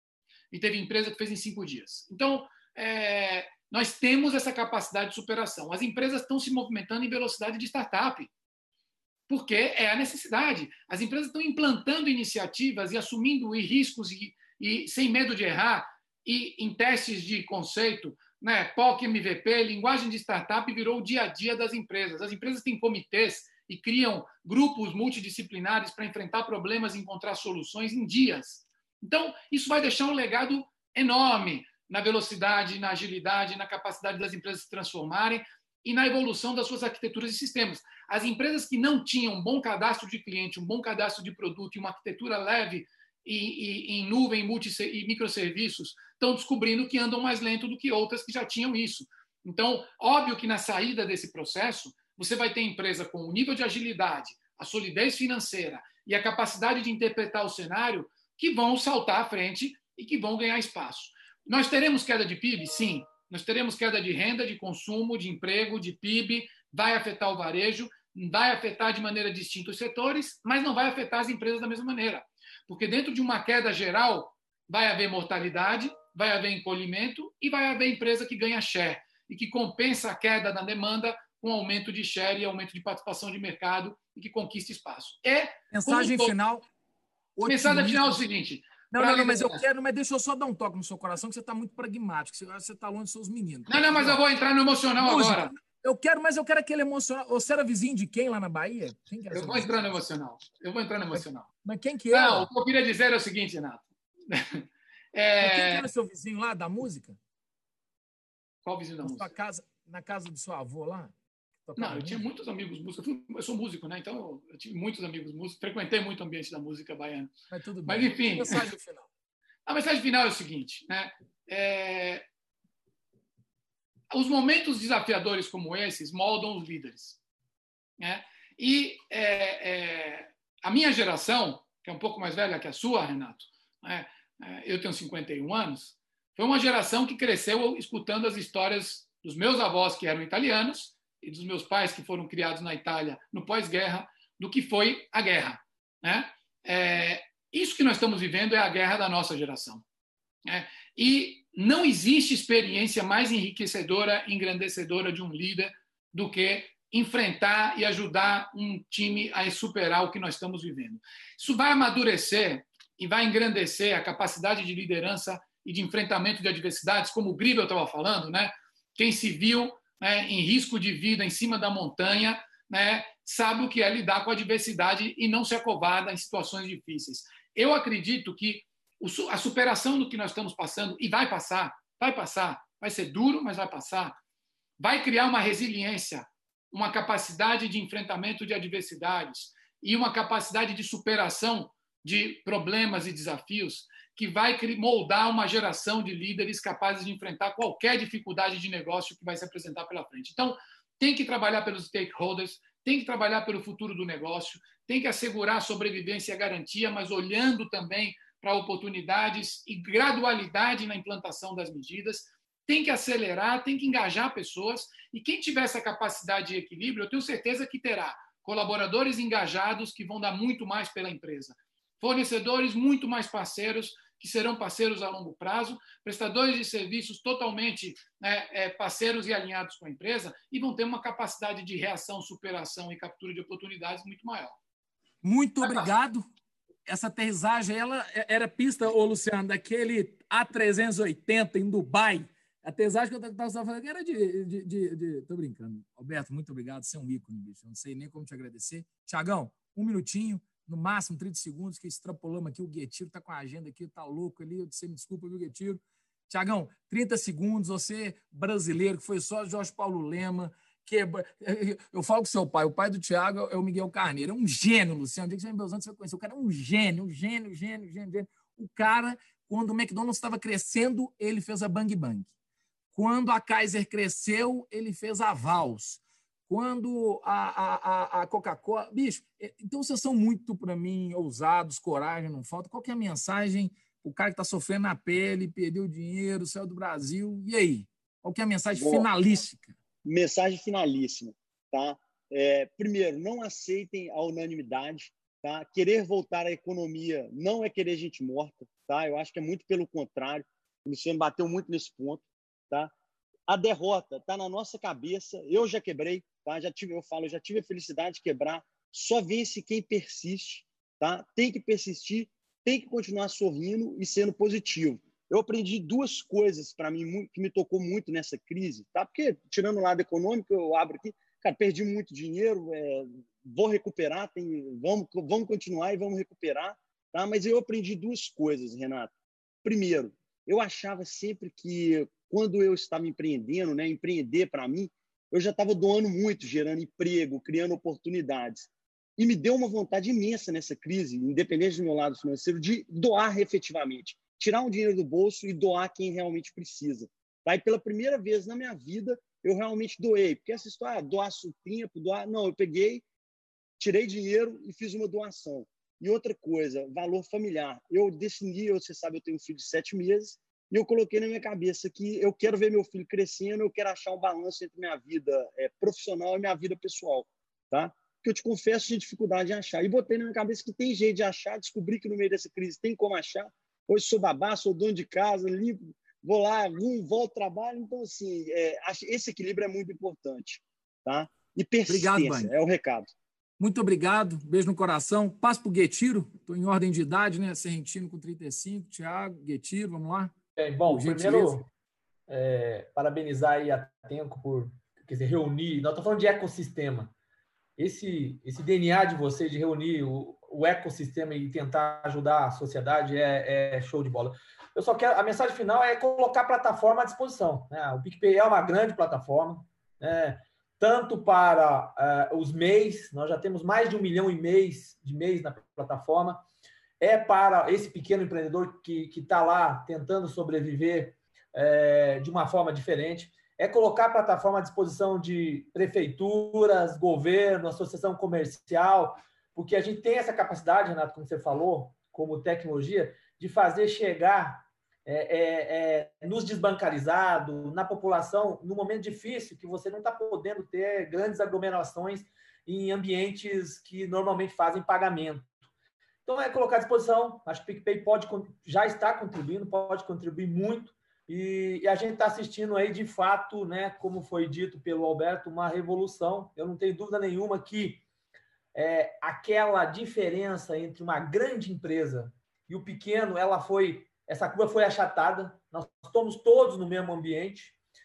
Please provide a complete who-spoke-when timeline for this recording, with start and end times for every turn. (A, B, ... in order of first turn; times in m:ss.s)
0:00.5-0:08.3 A
0:09.3-1:26.4 A
1:25.7-1:26.7 B
1:27.4-1:28.2 B
1:27.5-1:29.6 A
1:28.9-1:34.2 B
1:33.7-1:35.5 A
1:35.0-1:40.0 B
1:39.3-1:41.5 A
1:41.1-1:42.5 B
1:42.1-1:45.9 A
1:45.4-1:47.2 B
1:48.6-1:49.3 A
1:49.0-1:51.1 B
1:51.6-1:52.2 B
1:51.8-1:57.3 A
1:57.5-1:59.1 B
1:57.9-1:58.7 A
1:59.7-2:02.2 A
2:04.1-2:07.2 A
2:08.0-2:29.8 A
2:30.5-3:04.2 A
3:04.8-3:54.6 A
3:55.2-3:56.2 B
3:55.6-3:55.9 A
3:56.9-4:32.3 B
4:32.9-4:49.7 B
4:48.8-4:49.1 C
4:50.0-5:02.9 C
5:03.5-5:29.1 C
5:29.6-5:53.0 C
5:53.8-6:23.1 C
6:21.9-6:22.5 B
6:23.6-6:30.3 B
6:30.6-6:31.7 D
6:30.8-6:31.6 B
6:32.3-6:37.1 D
6:37.8-6:56.4 D
6:57.0-7:25.5 D
7:26.3-7:38.0 D
7:38.7-7:47.8 D